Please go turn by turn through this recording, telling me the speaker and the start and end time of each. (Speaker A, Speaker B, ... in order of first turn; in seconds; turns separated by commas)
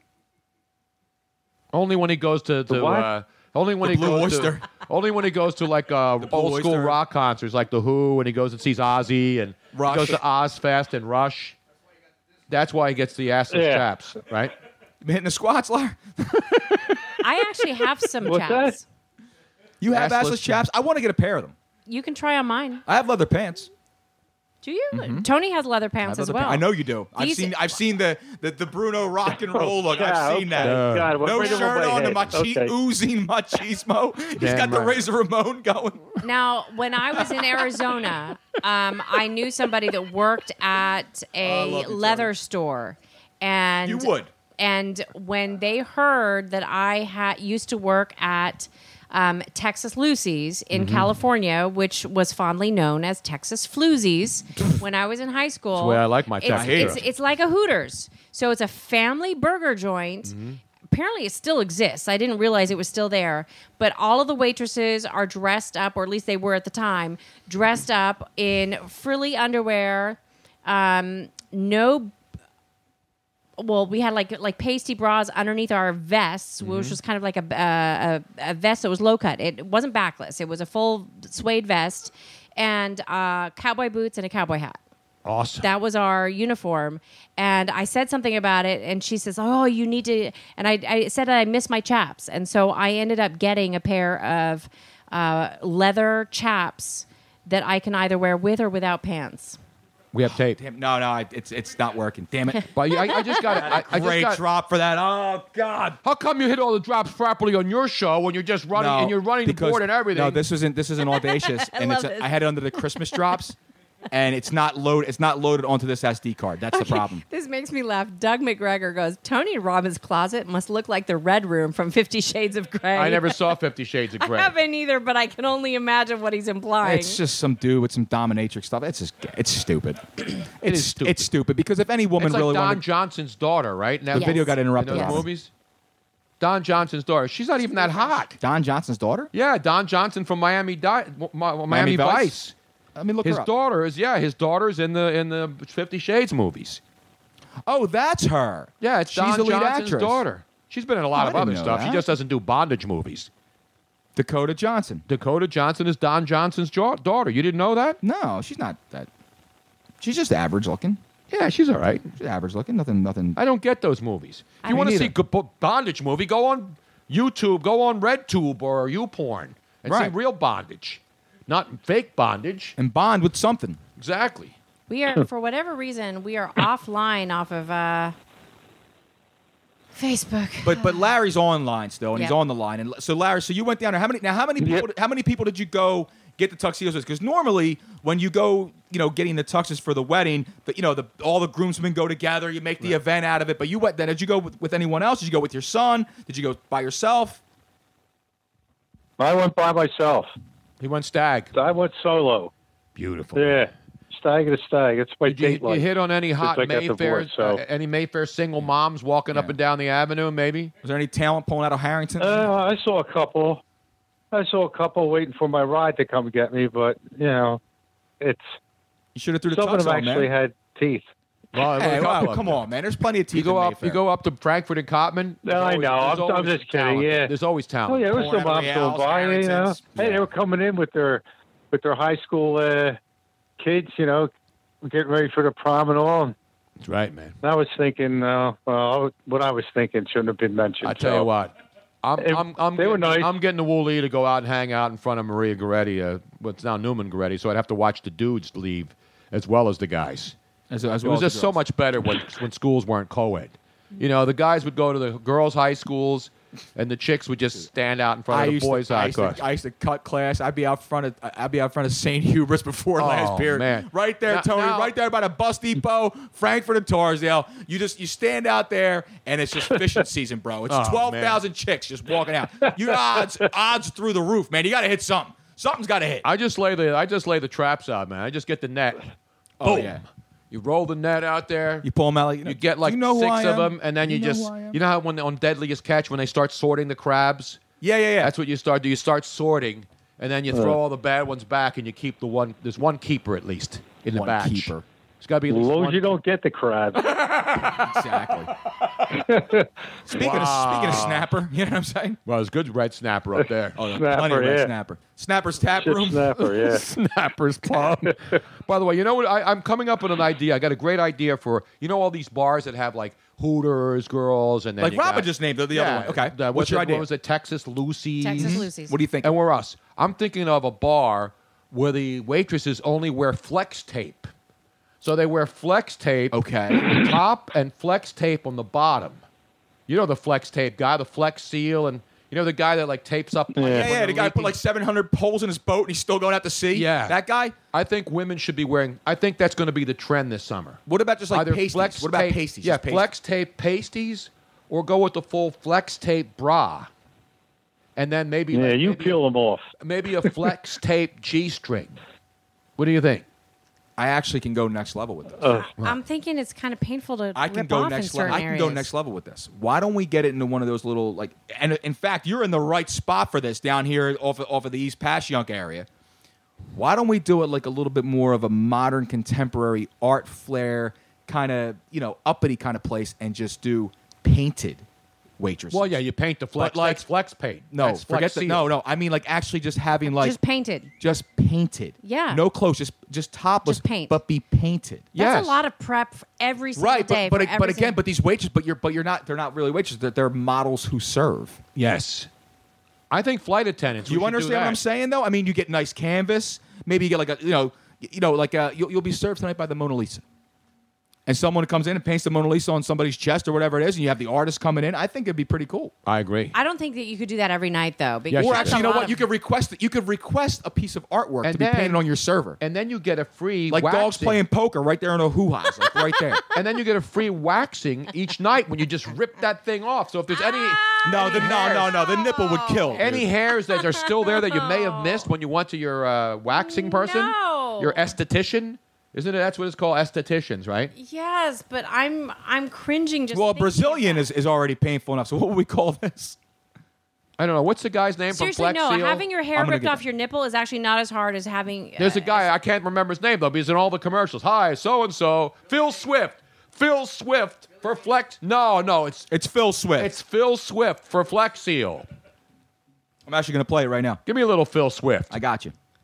Speaker A: 1.7-11.6, Speaker B: 2.7-3.1, Speaker C: 3.8-4.7, Speaker C: 6.2-7.0, Speaker C: 9.7-10.2, Speaker A: 12.5-14.5, Speaker B: 13.5-13.8, Speaker C: 15.0-17.0, Speaker D: 17.2-18.8, Speaker B: 18.2-18.8, Speaker C: 19.8-21.5, Speaker A: 19.9-20.6, Speaker D: 21.9-22.8, Speaker C: 22.9-23.7, Speaker D: 24.6-27.7, Speaker C: 24.9-25.3, Speaker C: 26.0-36.1, Speaker B: 29.5-32.7, Speaker A: 30.6-31.3, Speaker A: 34.4-35.0, Speaker D: 36.2-60.3, Speaker C: 41.4-42.3, Speaker C: 43.8-44.3, Speaker A: 50.7-51.1, Speaker A: 55.7-57.0, Speaker C: 56.5-57.0, Speaker A: 60.3-60.6, Speaker D: 60.9-72.1, Speaker D: 73.6-84.8, Speaker A: 76.6-77.0, Speaker A: 85.2-85.7, Speaker D: 85.6-99.6, Speaker A: 100.1-100.6, Speaker C: 100.2-106.0, Speaker A: 102.7-104.4, Speaker A: 106.0-110.4, Speaker C: 108.7-113.6, Speaker D: 111.0-113.2, Speaker C: 114.1-117.2, Speaker D: 116.7-123.6, Speaker A: 122.9-124.5, Speaker D: 124.2-127.2, Speaker C: 126.8-132.8, Speaker A: 130.6-131.3, Speaker A: 132.2-135.5, Speaker C: 134.1-135.3, Speaker D: 134.1-135.2, Speaker A: 136.4-138.4, Speaker C: 138.3-139.3, Speaker A: 139.3-142.5, Speaker C: 141.7-142.4, Speaker C: 142.9-143.5, Speaker A: 143.2-146.8, Speaker C: 147.7-150.2, Speaker A: 148.8-153.3, Speaker C: 151.1-152.1, Speaker C: 154.2-155.0, Speaker A: 155.1-158.0, Speaker C: 158.0-159.1, Speaker C: 160.0-161.0, Speaker A: 161.3-162.1, Speaker C: 162.2-163.4, Speaker A: 163.3-172.8, Speaker C: 164.6-165.1, Speaker C: 169.8-170.1, Speaker C: 172.8-173.8, Speaker A: 174.0-174.5, Speaker D: 174.9-178.1, Speaker D: 179.9-181.1, Speaker C: 180.6-197.4, Speaker B: 199.2-200.3, Speaker A: 200.8-201.5, Speaker B: 201.5-202.5, Speaker A: 202.9-203.6, Speaker B: 203.3-205.8, Speaker A: 205.3-210.7, Speaker B: 206.4-207.6, Speaker C: 210.8-212.5, Speaker B: 212.2-213.6, Speaker B: 214.3-217.6, Speaker B: 218.2-218.5, Speaker C: 219.1-220.3, Speaker B: 219.5-221.1, Speaker A: 221.5-222.6, Speaker C: 221.7-224.0, Speaker A: 223.3-228.2, Speaker B: 225.4-227.3, Speaker B: 227.9-233.0, Speaker C: 228.1-230.2, Speaker B: 233.6-234.3, Speaker B: 234.8-236.3, Speaker A: 236.8-237.3, Speaker B: 237.4-241.3, Speaker A: 240.8-250.3, Speaker B: 242.2-243.3, Speaker C: 250.7-251.6, Speaker A: 251.0-259.4, Speaker C: 258.3-276.3, Speaker A: 263.0-264.9, Speaker A: 270.7-271.4, Speaker A: 276.2-279.1, Speaker C: 279.6-280.0, Speaker A: 279.6-281.9, Speaker C: 281.8-284.8, Speaker A: 282.4-287.6, Speaker C: 287.8-288.3, Speaker A: 288.2-296.1, Speaker B: 290.5-290.8, Speaker C: 294.1-294.8, Speaker B: 295.5-297.1, Speaker A: 297.0-298.1, Speaker C: 297.7-298.5, Speaker B: 299.1-299.7, Speaker C: 300.1-302.2, Speaker A: 300.1-301.3, Speaker A: 302.2-303.9, Speaker C: 303.8-306.3, Speaker B: 303.9-304.7, Speaker B: 305.8-306.8, Speaker A: 306.4-318.7, Speaker B: 308.0-308.3, Speaker C: 314.8-317.1, Speaker D: 318.2-318.9, Speaker C: 318.4-319.3, Speaker A: 319.2-324.3, Speaker A: 325.0-329.2, Speaker C: 326.3-327.1, Speaker A: 329.9-334.6, Speaker B: 333.5-333.9, Speaker C: 333.7-337.6, Speaker A: 336.7-337.2, Speaker A: 337.7-340.8, Speaker C: 340.9-343.1, Speaker A: 341.3-346.9, Speaker A: 347.9-349.2, Speaker B: 348.5-349.6, Speaker A: 349.8-352.0, Speaker A: 352.8-353.2, Speaker C: 354.0-355.4, Speaker B: 355.4-355.7, Speaker D: 355.8-358.9, Speaker C: 357.3-365.9, Speaker C: 366.7-374.8, Speaker C: 375.4-375.9, Speaker A: 375.7-378.7, Speaker C: 376.6-377.0, Speaker C: 377.7-380.4, Speaker D: 380.1-380.9, Speaker C: 381.0-385.1, Speaker D: 382.0-382.4, Speaker D: 383.6-384.2, Speaker A: 385.1-385.6, Speaker D: 385.1-388.0, Speaker C: 386.8-391.7, Speaker A: 391.8-392.3, Speaker A: 393.1-394.8, Speaker C: 394.1-400.2, Speaker C: 401.2-405.9, Speaker A: 406.1-406.5, Speaker D: 406.5-409.2, Speaker A: 408.3-408.8, Speaker C: 408.4-412.6, Speaker A: 411.4-412.0, Speaker A: 412.6-414.4, Speaker C: 413.7-416.4, Speaker A: 416.5-421.8, Speaker D: 420.3-423.0, Speaker C: 421.0-423.3, Speaker A: 423.0-430.9, Speaker D: 423.7-425.3, Speaker D: 426.5-428.1, Speaker D: 430.9-434.3, Speaker C: 433.3-436.4, Speaker A: 437.4-439.2, Speaker D: 438.3-442.5, Speaker C: 439.5-440.0, Speaker A: 442.0-449.3, Speaker C: 449.3-450.1, Speaker A: 450.0-452.1, Speaker C: 453.3-454.2, Speaker A: 454.2-455.4, Speaker C: 455.3-455.7